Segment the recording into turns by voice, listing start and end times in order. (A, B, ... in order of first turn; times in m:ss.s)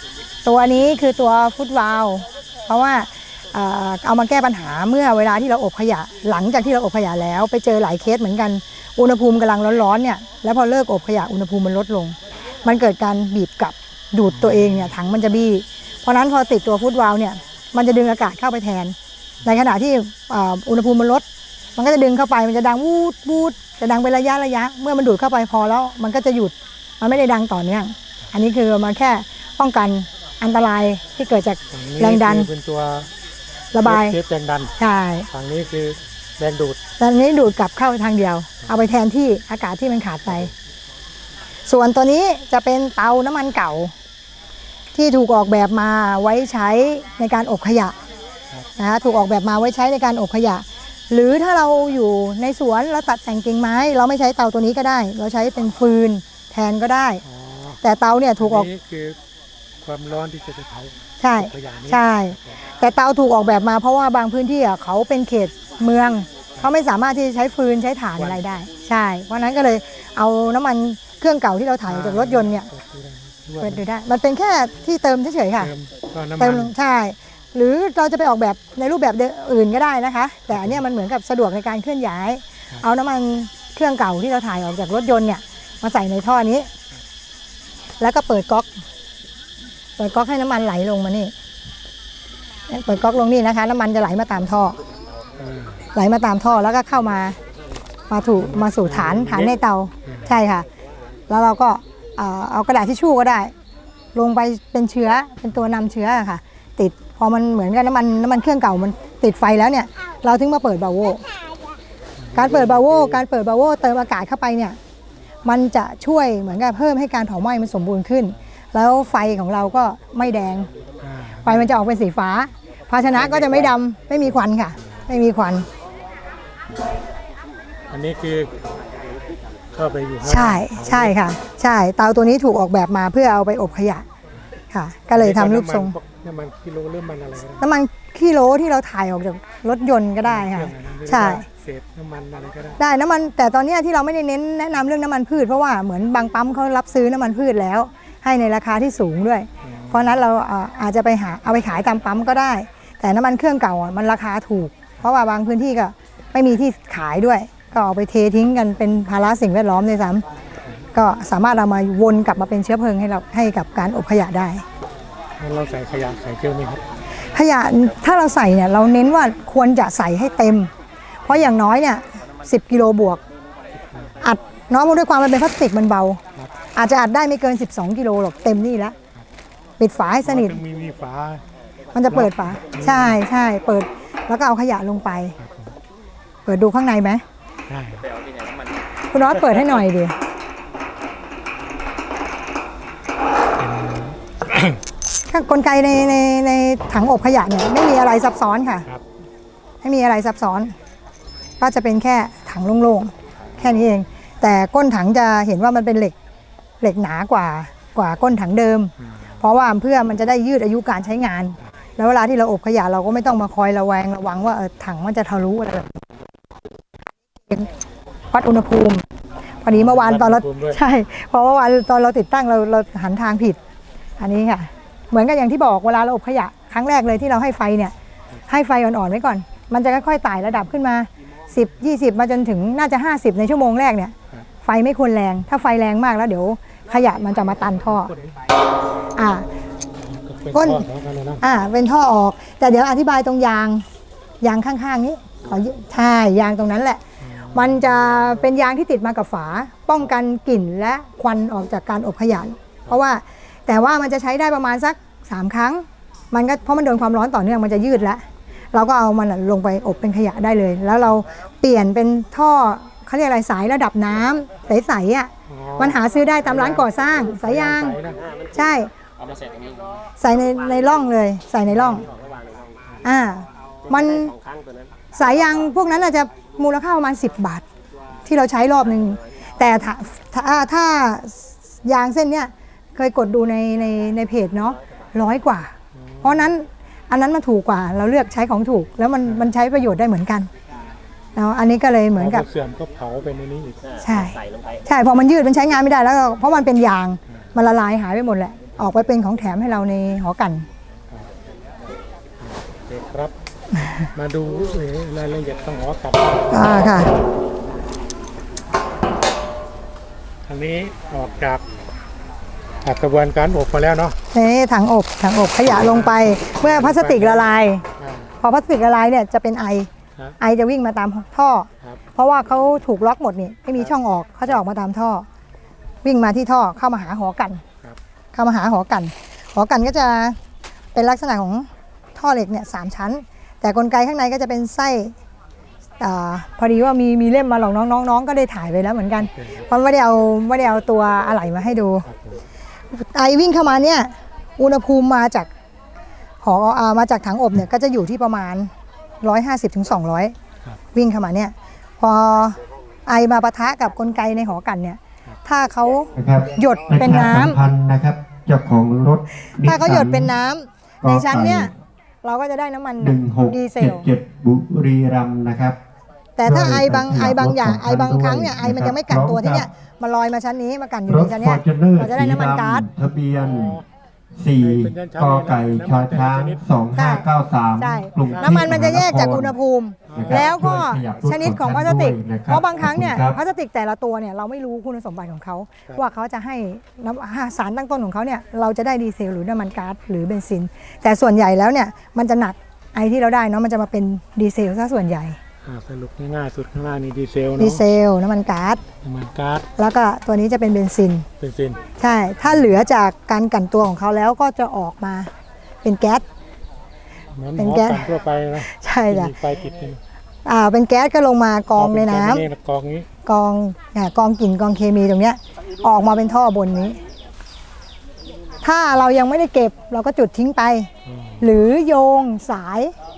0:00.4-0:21.2 A
0:14.3-0:14.9 B
0:21.8-0:32.5 A
0:31.7-0:33.1 B
0:33.7-0:34.2 A
0:33.8-0:34.7 B
0:34.8-0:35.3 A
0:35.3-0:36.8 B
0:37.0-0:40.5 A
0:41.7-0:43.9 A
0:44.9-0:48.0 A
0:48.8-0:57.2 A
0:57.2-0:57.8 B
0:57.8-0:58.7 A
0:58.4-0:59.2 B
0:59.8-1:02.6 B
1:01.2-1:12.7 A
1:08.2-1:08.5 B
1:11.9-1:13.8 B
1:13.6-1:15.7 A
1:15.6-1:16.7 B
1:16.4-1:26.7 A
1:20.5-1:20.8 B
1:28.0-1:28.7 A
1:30.0-1:31.3 A
1:32.7-1:34.8 A
1:35.4-1:35.8 B
1:36.0-1:37.4 A
1:38.1-1:40.7 A
1:38.4-1:39.5 B
1:40.0-1:40.3 B
1:41.3-1:43.5 A
1:44.2-1:51.2 A
1:52.2-1:53.2 B
1:52.3-1:54.8 A
1:55.4-2:00.7 A
2:01.0-2:01.8 B
2:01.4-2:05.7 A
2:03.1-2:03.8 B
2:07.9-2:08.5 B
2:09.8-2:11.2 B
2:10.2-2:14.0 A
2:14.7-2:16.0 A
2:15.1-2:17.7 B
2:17.6-2:21.5 A
2:20.2-2:22.8 B
2:22.8-2:40.2 A
2:29.6-2:30.2 B
2:41.0-2:44.6 A
2:45.4-2:46.8 B
2:47.3-2:50.7 A
2:51.3-2:53.2 A
2:54.2-2:56.2 A
2:56.8-2:59.0 A
2:59.8-3:00.6 A
3:00.2-3:01.4 B
3:02.0-3:05.4 A
3:02.1-3:03.2 B
3:05.4-3:05.8 B
3:06.5-3:07.2 A
3:07.7-3:08.1 B
3:09.1-3:10.2 A
3:13.6-3:14.8 B
3:15.3-3:18.9 A
3:19.8-3:20.7 A
3:21.6-3:26.2 A
3:26.8-3:36.1 A
3:37.4-3:37.7 A
3:38.3-3:39.0 A
3:39.6-3:43.6 A
3:39.7-3:40.8 B
3:44.2-3:47.9 A
3:48.5-3:58.1 A
3:58.0-3:58.3 B
3:59.2-3:59.5 A
4:00.0-4:01.4 B
4:00.5-4:00.8 A
4:01.4-4:03.8 A
4:04.4-4:07.0 A
4:07.2-4:07.8 B
4:07.5-4:18.2 A
4:18.7-4:28.0 A
4:25.5-4:28.2 B
4:28.5-4:28.9 A
4:30.2-4:32.1 A
4:33.0-4:34.4 A
4:35.2-4:37.6 A
4:38.3-4:50.5 A
4:46.0-4:46.5 B
4:51.4-4:52.5 A
4:52.1-4:53.8 B
4:54.0-5:00.7 A
5:02.4-5:03.3 B
5:04.1-5:06.8 B
5:06.5-5:07.1 A
5:10.5-5:11.6 B
5:12.8-5:14.2 B
5:14.3-5:17.8 A
5:15.7-5:18.3 B
5:18.4-5:19.9 A
5:20.4-5:25.3 A
5:26.0-5:27.6 A
5:28.3-5:30.4 A
5:31.0-5:35.1 A
5:36.0-5:42.1 A
5:39.2-5:39.6 B
5:42.1-5:42.4 B
5:42.9-5:45.5 A
5:46.4-5:48.7 A
5:49.2-5:50.3 A
5:50.9-5:57.6 A
5:56.2-6:00.3 C
5:59.6-6:01.7 A
6:01.0-6:01.7 C
6:02.2-6:04.1 A
6:03.0-6:05.8 C
6:06.4-6:12.9 A
6:06.4-6:09.7 C
6:11.1-6:13.8 C
6:13.3-6:13.8 B
6:14.4-6:19.6 C
6:14.6-6:16.6 B
6:16.9-6:35.4 A
6:18.3-6:19.2 B
6:20.1-6:20.6 B
6:20.1-6:23.4 C
6:35.6-6:37.8 B
6:37.6-6:38.8 A
6:39.0-6:39.7 B
6:39.8-6:41.3 A
6:41.4-6:41.8 B
6:42.0-6:45.3 A
6:42.4-6:42.8 B
6:45.8-6:46.2 A
6:47.4-6:50.0 B
6:47.6-6:48.1 A
6:48.6-6:49.3 A
6:50.4-6:52.4 A
6:51.8-6:53.1 B
6:53.2-6:57.0 A
6:58.6-7:02.9 A
7:01.1-7:01.6 B